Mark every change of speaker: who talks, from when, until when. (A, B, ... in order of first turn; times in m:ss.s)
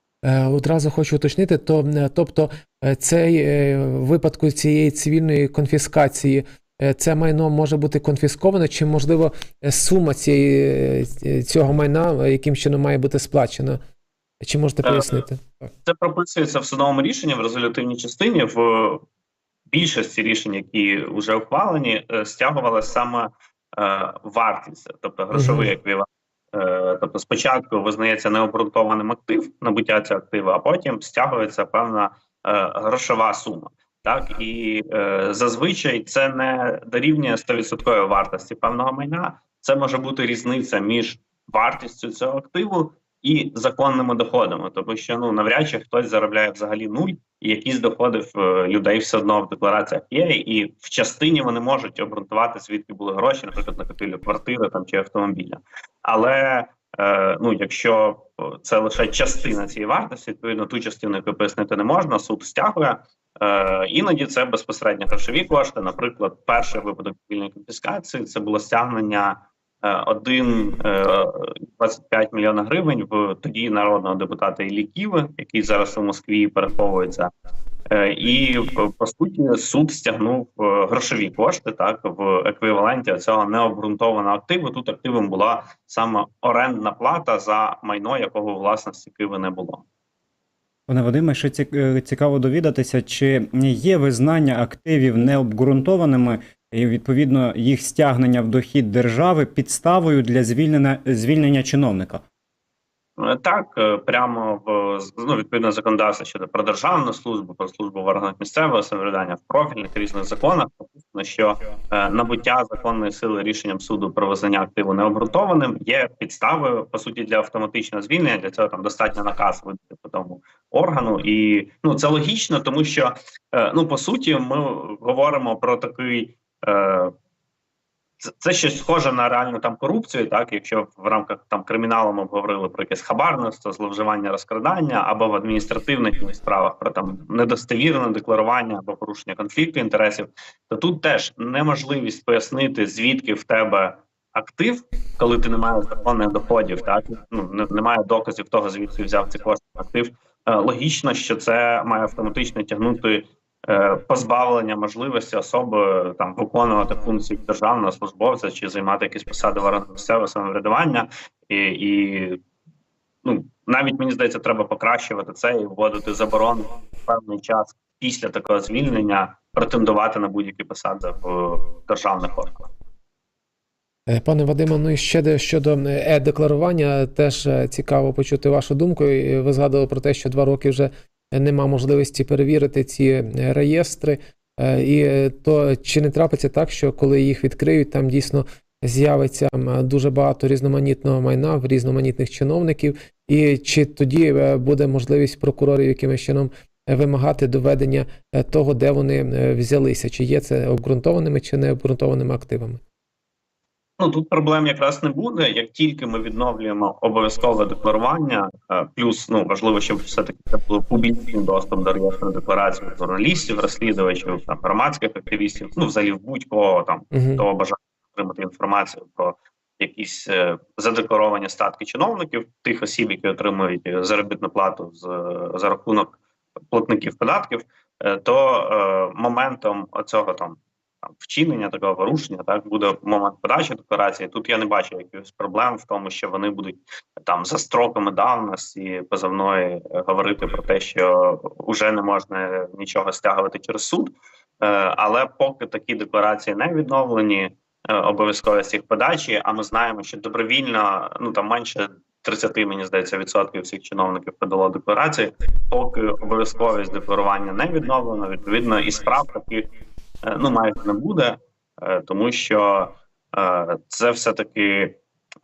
0:00.2-0:13.8 A
0:14.4-0:15.5 A
0:14.8-0:15.2 B
0:15.8-0:19.0 B
0:19.7-1:17.3 B
0:25.3-0:25.7 A
1:17.9-1:29.8 B
1:30.9-1:42.2 C
1:43.2-2:07.1 B
2:08.2-2:42.4 B
2:43.2-2:52.7 B
2:54.1-3:22.8 A
3:24.0-3:46.2 B
3:37.1-3:37.4 A
3:46.7-3:50.6 B
3:51.2-4:19.7 B
4:20.2-4:25.0 B